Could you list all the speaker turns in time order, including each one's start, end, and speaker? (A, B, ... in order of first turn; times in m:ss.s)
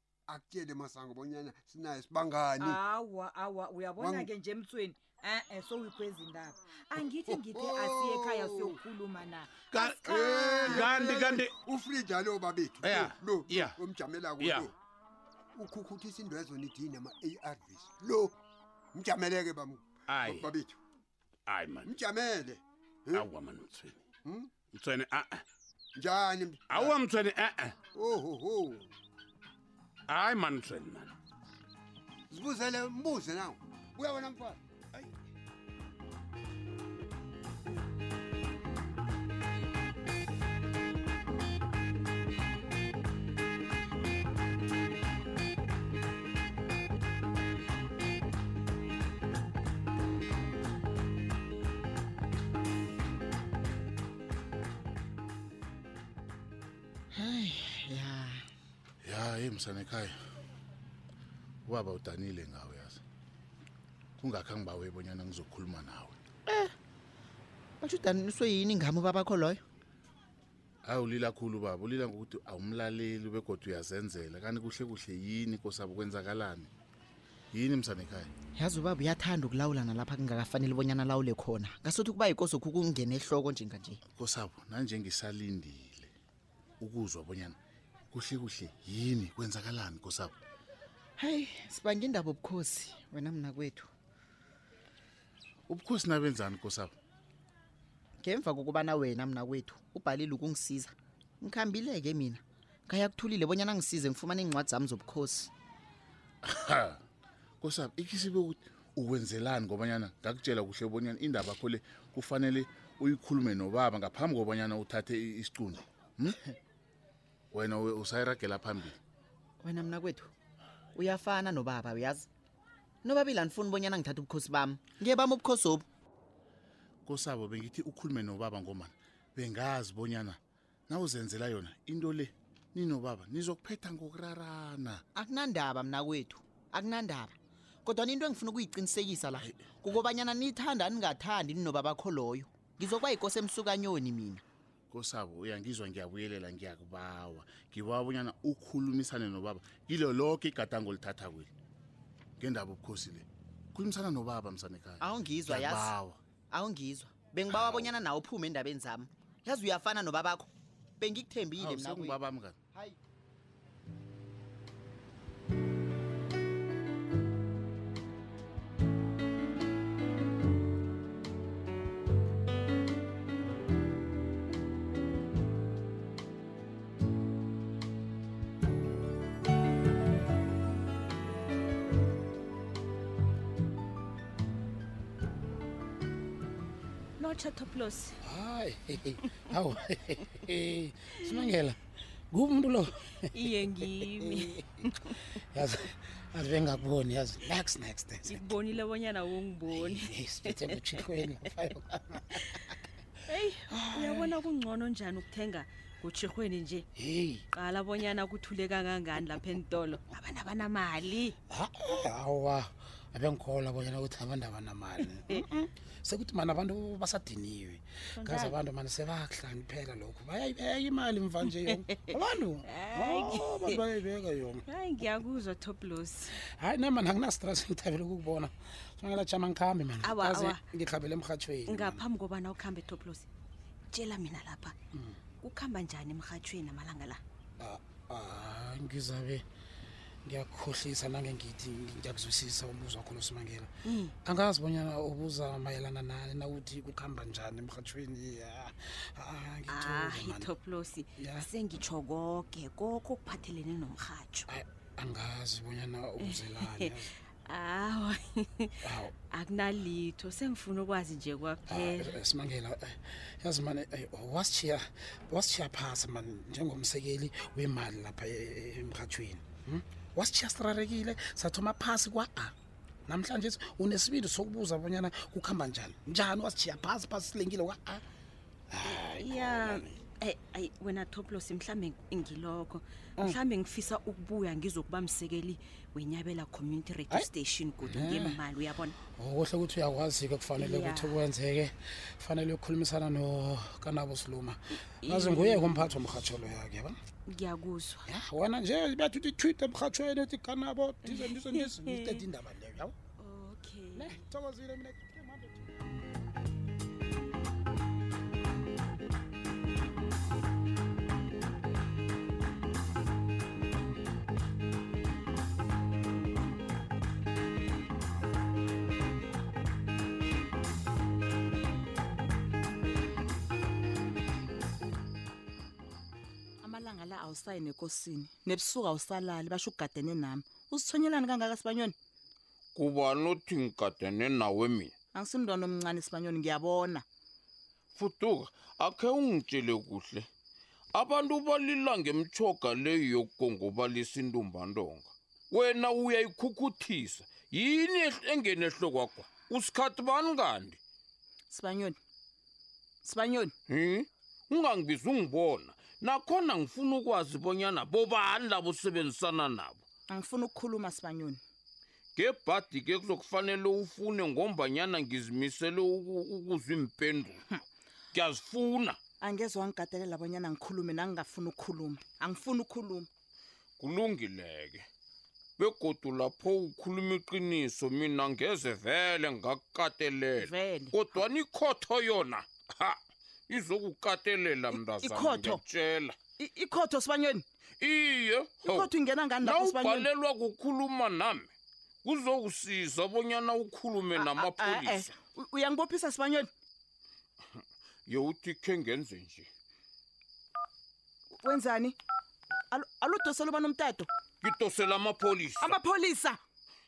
0:00.3-0:02.8 A
0:02.6-0:11.3 B
0:04.0-0:04.3 A
0:07.3-0:08.8 A
0:09.7-0:11.5 C
0:10.1-0:14.7 A
0:12.8-0:13.8 C
0:14.4-0:14.7 C
0:15.5-0:18.3 A
0:18.9-0:20.8 A
0:20.1-0:20.5 C
0:21.5-0:21.9 C
0:21.8-0:23.3 A
0:23.1-0:24.0 C
0:24.2-0:24.5 A
0:24.7-0:25.4 C
0:25.9-0:27.0 A
0:26.7-0:27.8 C
0:27.9-0:28.9 A
0:30.1-0:31.1 C
0:32.3-0:34.6 A
0:57.1-0:58.4 D
0:59.0-1:00.2 E
1:01.6-1:03.0 E
1:04.2-1:06.2 E
1:06.4-1:06.7 D
1:07.8-1:09.6 D
1:10.8-1:16.7 E
1:17.5-1:18.3 E
1:18.6-1:24.0 D
1:24.2-1:26.1 E
1:26.8-1:27.6 E
1:28.1-1:30.4 E
1:31.2-1:33.9 D
1:35.7-1:36.9 E
1:38.2-1:45.5 D
1:46.4-1:47.0 E
1:47.6-1:56.4 E
1:57.5-1:59.0 E
1:59.6-2:00.3 D
2:00.9-2:02.3 D
2:03.0-2:05.8 D
2:07.0-2:15.0 E
2:15.1-2:24.4 D
2:19.4-2:20.0 E
2:24.9-2:31.5 E
2:32.4-2:36.2 E
2:35.0-2:35.9 D
2:36.5-2:40.5 D
2:37.5-2:37.9 E
2:41.0-2:42.2 D
2:41.6-2:42.6 E
3:07.2-3:08.2 F
3:08.2-3:11.8 G
3:12.3-3:14.6 G
3:13.3-3:14.5 F
3:15.3-3:18.5 G
3:18.2-3:21.0 F
3:19.7-3:22.7 G
3:23.3-3:26.9 F
3:23.7-3:24.3 G
3:27.0-3:27.4 G
3:27.5-3:31.4 F
3:31.5-3:44.6 G
3:38.2-3:38.6 F
3:41.6-3:43.8 F
3:44.6-3:46.4 F
3:46.5-3:52.0 G
3:50.0-3:50.6 F
3:51.7-3:53.3 F
3:53.9-3:54.7 F
3:55.4-3:57.2 F
3:57.6-3:59.4 G
4:00.2-4:10.5 G
4:03.8-4:04.1 F
4:09.7-4:14.5 F
4:11.2-4:11.5 G
4:14.5-4:17.1 G
4:16.2-4:16.9 F
4:17.4-4:18.7 F
4:18.8-4:19.1 G
4:19.3-4:22.1 F
4:21.7-4:32.5 G
4:33.0-4:38.0 G
4:38.7-4:39.9 G
4:39.2-4:49.0 F
4:47.8-4:48.4 G
4:49.1-4:57.0 G
4:50.6-4:51.2 F
4:55.0-4:55.8 F
4:57.3-4:58.1 F
4:58.0-5:03.0 G
5:01.1-5:02.2 F
5:03.2-5:04.2 F
5:03.9-5:05.7 G
5:26.6-5:31.9 H
5:32.7-5:34.9 I
5:35.1-5:37.0 H
5:37.9-5:40.3 I
5:40.9-5:50.8 I
5:51.5-5:52.0 H
5:53.0-5:53.5 H
5:53.7-5:59.8 I
6:00.1-6:01.4 H
6:02.2-6:07.4 I
6:08.1-6:09.0 I
6:09.2-6:13.1 H
6:13.8-6:14.9 I
6:15.6-6:23.0 I
6:20.4-6:21.2 H
6:23.5-6:26.1 I
6:24.7-6:25.6 H
6:26.4-6:27.4 H
6:27.8-6:31.5 I
6:28.6-6:30.1 H
6:32.0-6:35.1 I
6:34.1-6:36.5 H
6:38.0-6:39.5 I
6:41.4-6:42.0 H
6:42.7-6:44.1 H
6:44.4-6:45.8 I
6:45.6-6:46.4 H